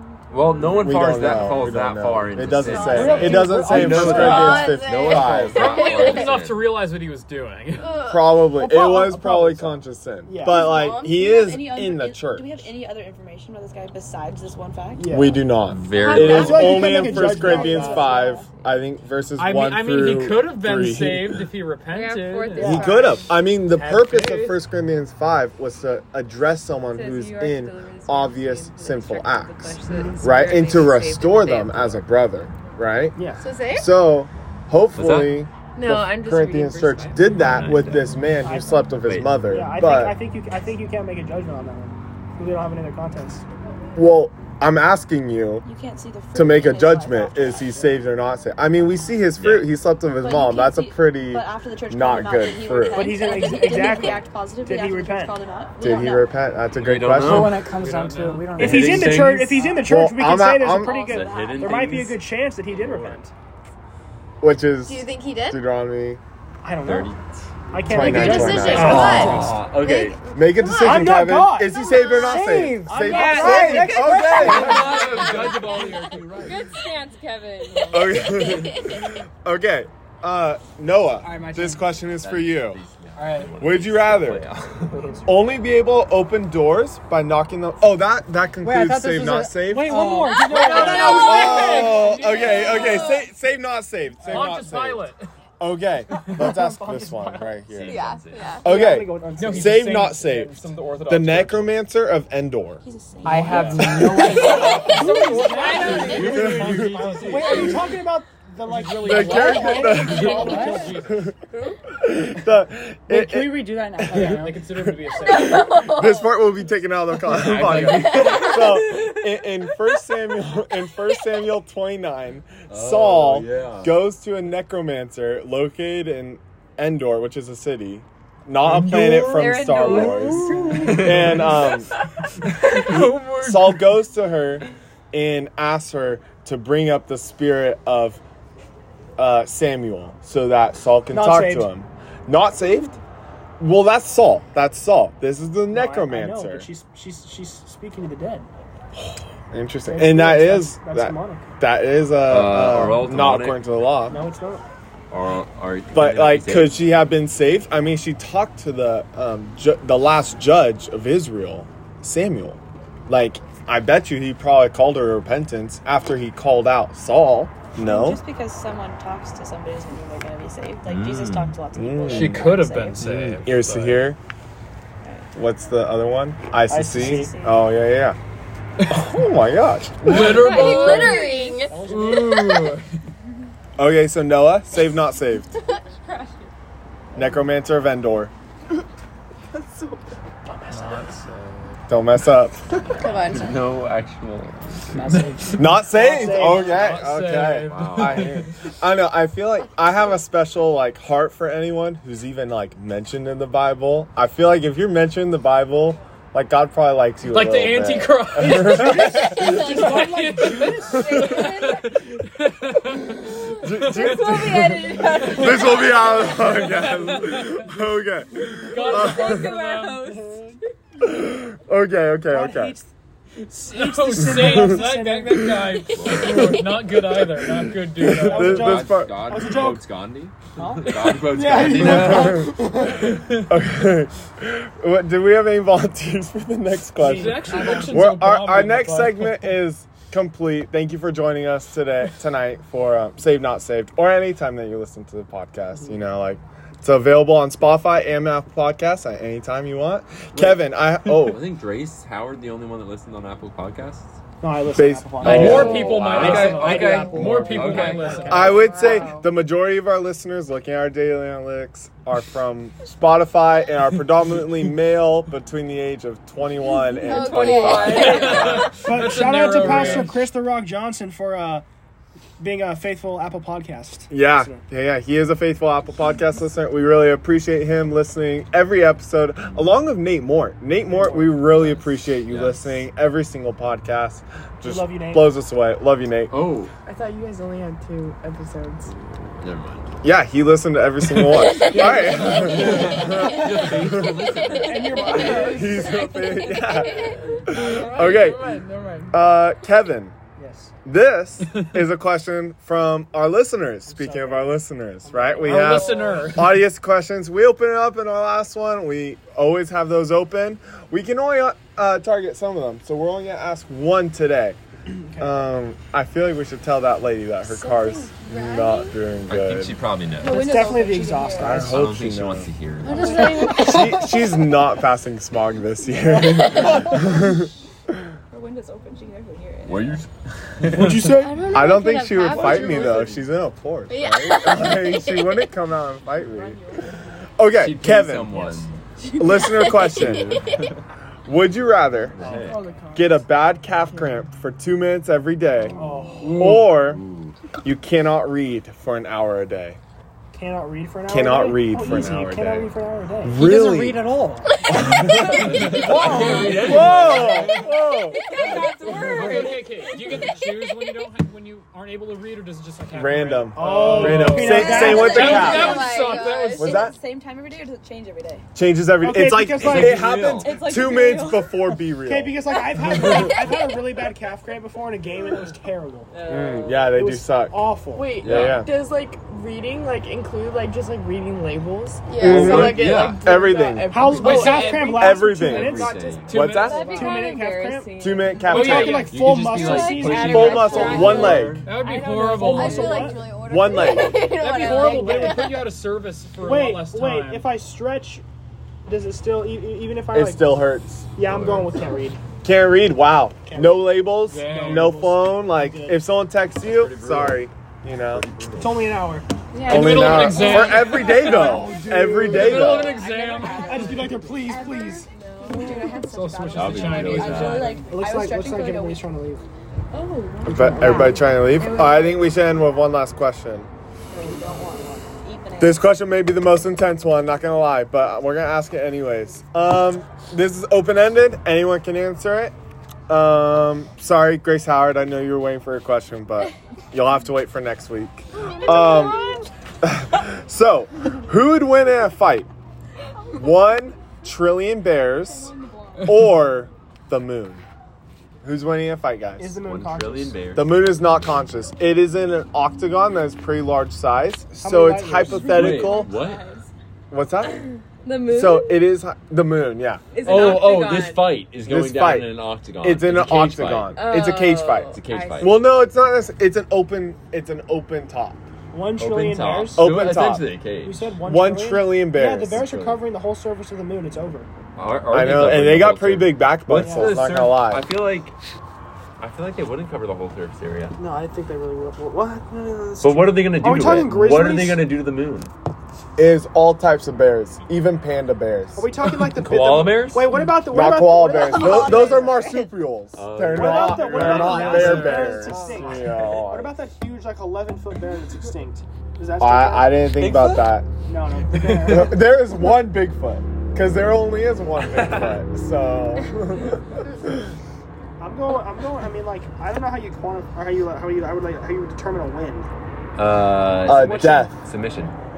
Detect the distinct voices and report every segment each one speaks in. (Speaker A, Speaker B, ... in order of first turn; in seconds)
Speaker A: 0.3-6.7, 15.7-16.9, 34.9-35.4, 37.3-38.2, 39.0-39.4, 49.4-49.7, 56.7-57.6, 58.5-59.7, 60.9-63.2, 66.8-67.4, 68.6-70.2, 74.4-76.7, 82.2-85.2, 97.7-98.6, 105.9-107.8, 117.3-118.6, 122.7-123.9, 128.7-129.2, 130.7-131.7, 152.3-153.6, 155.1-156.8, 170.8-171.6, 193.3-195.2, 197.7-198.4, 225.9-226.7, 228.4-232.5, 250.3-254.2, 255.2-258.6, 282.1-282.9, 286.3-286.7, 288.9-289.9, 291.6-295.1, 319.3-320.7, 321.5-323.3, 329.6-331.3, 332.3-333.3, 337.5-338.7, 340.0-340.8, 342.1-342.6, 346.2-347.4, 355.3-357.6, 369.6-370.5, 378.2-378.6, 382.2-383.2, 385.3-386.5, 388.8-391.6, 401.2-401.7, 406.6-407.4, 408.1-409.0, 416.5-417.8, 449.6-451.4, 455.4-456.4, 460.2-463.9, 464.9-465.6, 469.0-471.1, 472.4-473.0, 474.8-478.4, 479.2-480.9, 483.0-485.5, 489.2-490.4, 493.1-496.4, 500.1-500.8, 501.5-502.1, 504.8-505.4, 513.1-515.1
Speaker B: 0.6-5.8, 8.0-12.7, 15.1-21.4, 22.6-33.2, 33.7-40.2, 44.0-45.6, 46.3-53.2, 55.8-57.6, 59.8-61.2, 64.4-66.2, 67.9-69.6, 70.3-75.0, 77.9-82.8, 83.6-84.5, 85.3-90.0, 90.8-102.8, 106.3-107.7, 109.0-111.3, 112.0-114.9, 115.7-131.9, 132.9-138.2, 139.2-143.0, 143.6-146.7, 148.9-154.3, 155.9-168.2, 171.7-174.2, 175.3-178.2, 178.9-180.6, 183.8-185.5, 187.1-188.3, 191.9-192.7, 195.6-209.6, 213.6-219.6, 221.0-222.8, 224.2-229.5, 231.5-251.5, 254.7-256.6, 258.3-268.4, 269.6-270.0, 274.1-286.4, 290.0-294.3, 295.3-298.5, 299.1-300.1, 300.8-314.6, 315.2-319.8, 321.4-327.5, 331.5-336.6, 337.4-338.5, 339.2-340.4, 341.3-342.2, 342.9-345.8, 346.3-347.0, 347.6-349.8, 351.1-354.1, 354.6-355.7, 356.6-358.5, 362.9-365.9, 366.6-366.9, 368.5-372.4, 376.3-377.6, 378.2-378.7, 382.2-386.9, 388.0-389.1, 390.2-391.7, 393.4-394.3, 400.1-401.1, 402.4-408.3, 409.7-413.1, 420.4-423.7, 425.6-432.5, 433.1-439.2, 439.8-442.5, 443.3-447.6, 448.4-449.6, 450.6-456.1, 457.1-457.7, 458.3-460.6, 461.6-468.4, 469.8-470.5, 471.2-472.6, 475.1-477.9, 486.2-488.9, 490.6-496.7, 499.4-500.9, 501.8-507.5, 513.8-514.5
Speaker C: 2.7-3.1, 4.0-6.4, 7.8-8.5, 10.5-10.9, 16.0-16.4, 33.4-33.8, 64.8-65.6, 68.0-71.0, 71.7-72.5, 90.8-91.9, 92.7-93.1, 97.8-98.8, 115.2-116.4, 180.1-181.7, 193.0-193.6, 267.0-268.6, 296.4-297.4, 317.6-318.9, 322.9-323.7, 331.2-333.1, 333.9-335.3, 339.2-340.2, 354.7-354.9, 358.4-359.4, 364.9-366.8, 382.1-382.6, 389.6-390.2, 392.3-395.7, 415.2-415.8, 438.6-439.3, 491.1-492.7
Speaker D: 2.8-4.7, 8.5-10.7, 14.9-15.6, 16.1-18.2, 29.9-30.2, 33.1-33.4, 38.4-38.9, 39.5-43.5, 52.9-55.4, 58.5-63.3, 66.6-67.1, 67.7-69.6, 70.7-75.0, 84.9-85.5, 89.6-91.8, 96.2-97.6, 98.6-100.1, 104.3-111.0, 130.5-131.1, 141.1-141.7, 145.7-148.5, 149.9-151.5, 154.1-154.6, 176.7-177.4, 181.7-182.6, 190.5-191.0, 195.9-197.0, 208.4-211.4, 220.0-220.6, 222.3-222.9, 223.5-225.7, 228.1-229.9, 230.6-233.1, 237.0-238.1, 254.4-258.4, 268.7-271.6, 272.4-274.6, 280.8-281.8, 284.6-285.4, 291.7-293.0, 294.5-295.9, 300.4-300.7, 303.9-306.4, 314.9-315.5, 320.2-321.8, 323.4-323.7, 326.0-327.1, 330.7-331.7, 345.7-346.6, 350.3-353.4, 355.6-357.5, 363.5-365.6, 369.0-370.2, 371.9-376.1, 376.8-378.2, 383.9-391.3, 392.4-393.3, 394.4-395.5, 396.3-398.2, 398.9-402.2, 403.4-406.0, 408.5-409.3, 411.0-412.7, 413.6-415.1, 417.8-419.4, 449.4-450.5, 454.6-455.7, 468.7-470.0, 470.8-474.5, 476.7-477.3, 481.0-484.9, 488.7-492.4, 493.4-500.2, 501.1-502.4, 508.2-512.7, 513.8-514.5
Speaker E: 5.5-8.1, 19.4-22.9, 23.6-24.6, 57.6-58.7, 73.1-73.6, 74.4-76.6, 90.5-93.1, 94.2-95.2, 99.4-101.8, 103.4-104.0, 104.8-108.0, 108.6-111.3, 114.1-116.0, 132.4-133.9, 172.1-174.1, 180.0-182.8, 190.7-191.6, 196.1-198.5, 207.2-214.3, 215.1-217.7, 218.5-220.1, 223.5-228.7, 237.0-239.6, 255.2-258.7, 267.9-270.3, 305.4-306.6, 355.4-357.5, 358.4-366.9, 384.1-385.2, 386.3-387.1, 388.4-389.6, 391.6-393.1, 394.3-397.5, 404.3-405.0, 409.6-411.2, 412.3-414.1, 415.6-418.0
Speaker F: 10.6-15.1, 45.6-47.9, 50.2-56.3, 60.7-61.9, 91.2-91.7, 92.8-93.2, 102.8-103.8, 129.4-130.1, 167.8-173.1, 175.0-175.3, 177.0-177.6, 180.3-181.7, 185.7-186.5, 209.1-211.9, 213.4-216.2, 218.8-220.4, 267.0-268.6, 294.7-298.2, 320.2-321.7, 328.3-330.0, 358.3-360.2, 364.6-368.4, 370.3-371.5, 372.6-373.6, 376.1-376.8, 386.7-388.1, 390.0-391.2, 391.8-393.1, 410.7-411.5, 412.4-419.1, 425.2-425.8, 456.1-456.6, 460.1-461.2
Speaker G: 21.9-23.4, 26.9-32.0, 35.8-37.4, 73.2-74.1, 74.8-78.4, 103.7-106.5, 129.3-130.3, 258.3-259.2, 376.3-376.7, 383.3-384.6, 386.6-387.6, 390.2-391.1, 409.5-410.7, 420.5-421.6, 460.2-461.1, 464.0-465.3
Speaker H: 57.2-59.3, 81.2-81.9, 83.2-83.5, 88.6-90.9, 103.2-105.0, 110.3-110.9, 113.1-114.7, 194.9-195.7, 353.4-354.5
Speaker I: 189.6-189.9, 258.7-259.1, 286.9-288.9, 295.0-295.6, 297.5-299.2, 322.8-324.0, 342.2-344.2, 377.9-384.4, 415.5-415.8, 424.3-425.1